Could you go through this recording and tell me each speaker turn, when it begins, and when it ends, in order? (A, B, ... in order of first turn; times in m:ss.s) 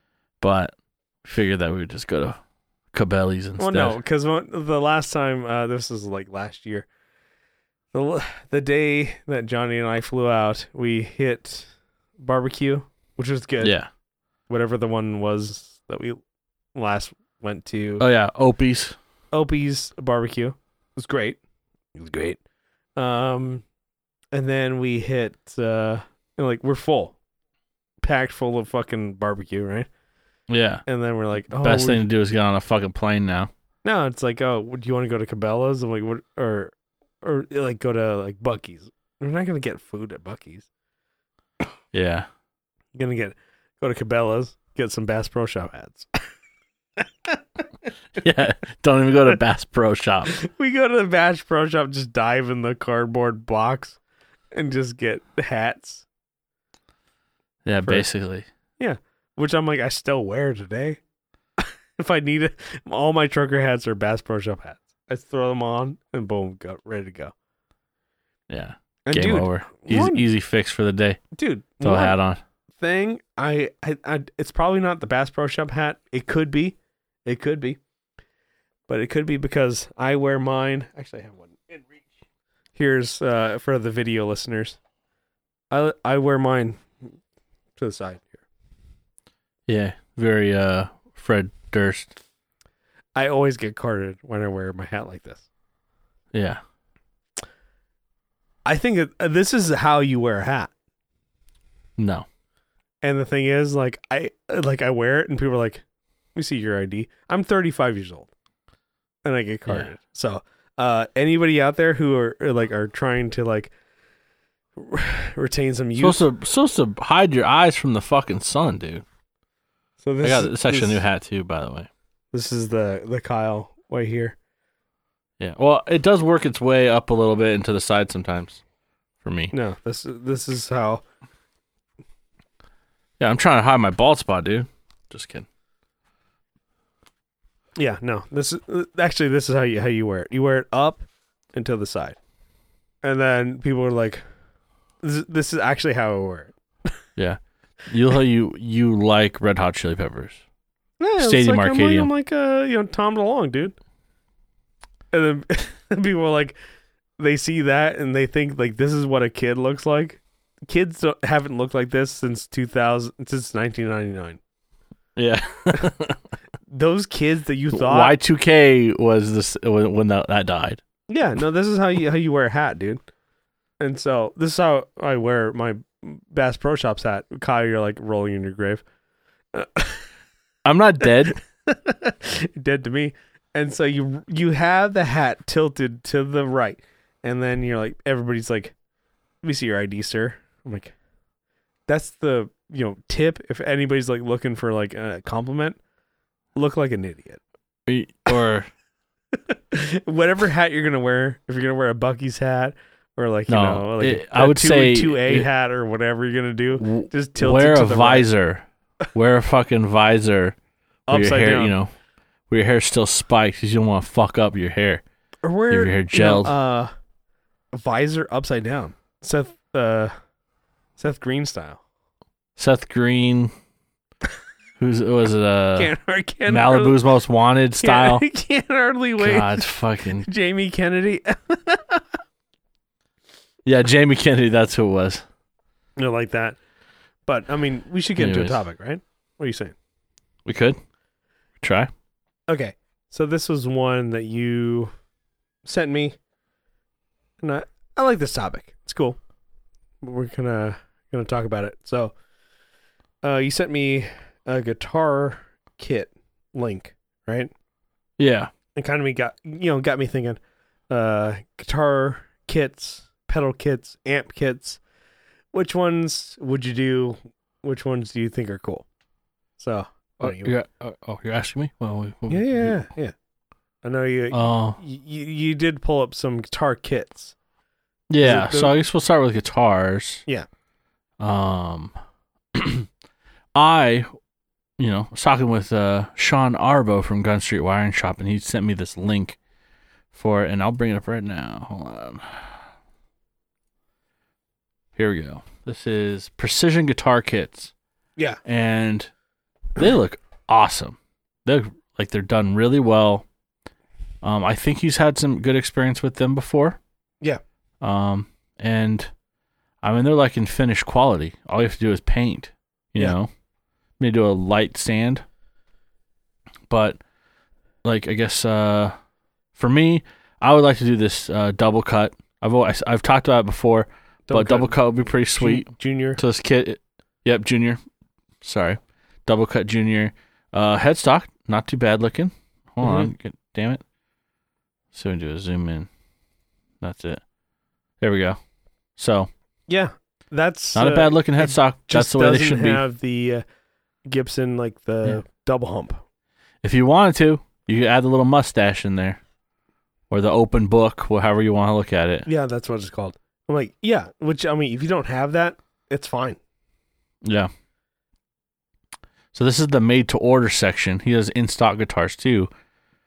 0:00.4-0:02.4 A
0:02.9-0:04.0 A
0:03.6-0:06.9 B
0:07.9-0:13.8 B
0:13.6-0:13.9 A
0:14.5-0:16.2 B
0:16.8-0:18.0 B
0:18.0-0:19.0 A
0:19.3-0:21.4 B
0:22.0-0:22.4 B
0:23.0-0:23.6 B
0:24.3-0:27.2 B
0:28.0-0:29.9 B
0:30.5-0:30.8 A
0:30.9-0:32.0 B
0:31.5-0:33.5 A
0:33.8-0:40.7 B
0:41.9-0:42.3 A
0:43.0-0:46.1 B
0:47.0-0:47.4 B
0:48.2-0:50.4 A
0:50.3-0:54.0 B
0:54.5-0:56.1 B
0:57.6-0:58.5 A
0:58.8-1:01.0 B
1:01.6-1:07.3 B
1:08.5-1:11.2 A
1:09.1-1:10.2 B
1:11.3-1:12.2 B
1:11.8-1:12.4 A
1:12.8-1:17.8 B
1:18.9-1:21.8 B
1:22.8-1:24.8 B
1:25.7-1:27.1 B
1:27.8-1:28.4 B
1:29.7-1:32.1 A
1:33.2-1:35.5 B
1:36.3-1:36.6 A
1:38.7-1:40.7 B
1:42.0-1:42.3 A
1:43.0-1:45.8 B
1:46.4-1:48.3 B
1:49.2-1:53.7 B
1:54.8-1:56.3 B
1:56.0-1:59.0 A
2:00.0-2:01.0 B
2:00.2-2:01.9 A
2:02.3-2:04.4 B
2:05.4-2:08.6 A
2:09.2-2:09.5 A
2:09.5-2:11.0 B
2:13.2-2:15.5 A
2:17.8-2:22.2 B
2:23.0-2:24.2 B
2:25.0-2:26.5 B
2:27.2-2:30.4 A
2:31.0-2:33.8 B
2:31.2-2:32.1 A
2:35.1-2:36.6 B
2:37.2-2:44.4 B
2:45.2-2:46.2 A
2:46.7-2:48.2 B
2:47.7-2:50.8 A
2:51.1-2:53.0 B
2:53.8-2:58.8 B
2:59.5-3:00.1 B
3:00.6-3:01.4 A
3:01.2-3:08.7 B
3:09.4-3:10.9 B
3:11.9-3:15.8 B
3:16.6-3:17.4 B
3:17.9-3:18.7 A
3:19.4-3:28.3 B
3:23.5-3:25.5 A
3:26.8-3:30.6 A
3:31.1-3:31.7 B
3:31.1-3:31.9 A
3:32.5-3:35.0 A
3:35.4-3:36.9 B
3:35.7-3:36.5 A
3:37.7-3:40.1 B
3:41.0-3:41.8 B
3:42.6-3:43.5 A
3:44.8-3:45.9 A
3:45.8-3:47.0 B
3:46.5-3:48.2 A
3:47.8-3:49.7 B
3:49.2-3:50.3 A
3:50.2-3:52.0 B
3:53.6-3:55.2 A
3:56.0-3:56.6 B
3:57.3-3:59.8 B
3:58.2-3:58.6 A
4:00.4-4:00.8 A
4:01.6-4:01.9 A
4:02.5-4:04.9 B
4:05.6-4:06.2 B
4:07.4-4:09.2 B
4:10.0-4:12.2 B
4:13.2-4:17.5 B
4:18.2-4:18.5 A
4:18.8-4:20.4 B
4:20.9-4:24.8 B
4:25.5-4:28.9 B
4:29.6-4:30.6 B
4:30.2-4:32.8 A
4:32.3-4:33.1 B
4:33.8-4:37.4 B
4:34.3-4:34.8 A
4:38.1-4:40.2 A
4:38.2-4:38.8 B
4:41.2-4:41.9 A
4:42.5-4:42.9 A
4:43.6-4:44.1 A
4:44.8-4:49.4 A
4:50.1-4:52.6 A
4:55.0-4:57.7 A
4:58.4-4:59.1 A
4:59.8-5:03.3 A
5:04.2-5:06.8 A
5:07.8-5:09.1 A
5:09.8-5:13.3 A
5:14.0-5:15.2 A
5:16.7-5:17.0 A
5:17.8-5:18.9 A
5:19.6-5:27.8 A
5:24.3-5:24.8 B
5:25.4-5:26.2 B
5:28.4-5:33.8 A
5:32.8-5:33.1 B
5:34.9-5:35.9 A
5:36.8-5:37.2 A
5:38.0-5:38.4 A
5:39.0-5:39.3 A
5:39.7-5:43.4 B
5:40.8-5:42.8 A
5:44.1-5:46.0 B
5:46.6-5:49.2 A
5:50.1-5:52.3 A
5:52.3-5:56.4 B
5:57.2-5:57.5 A
5:59.3-6:02.5 A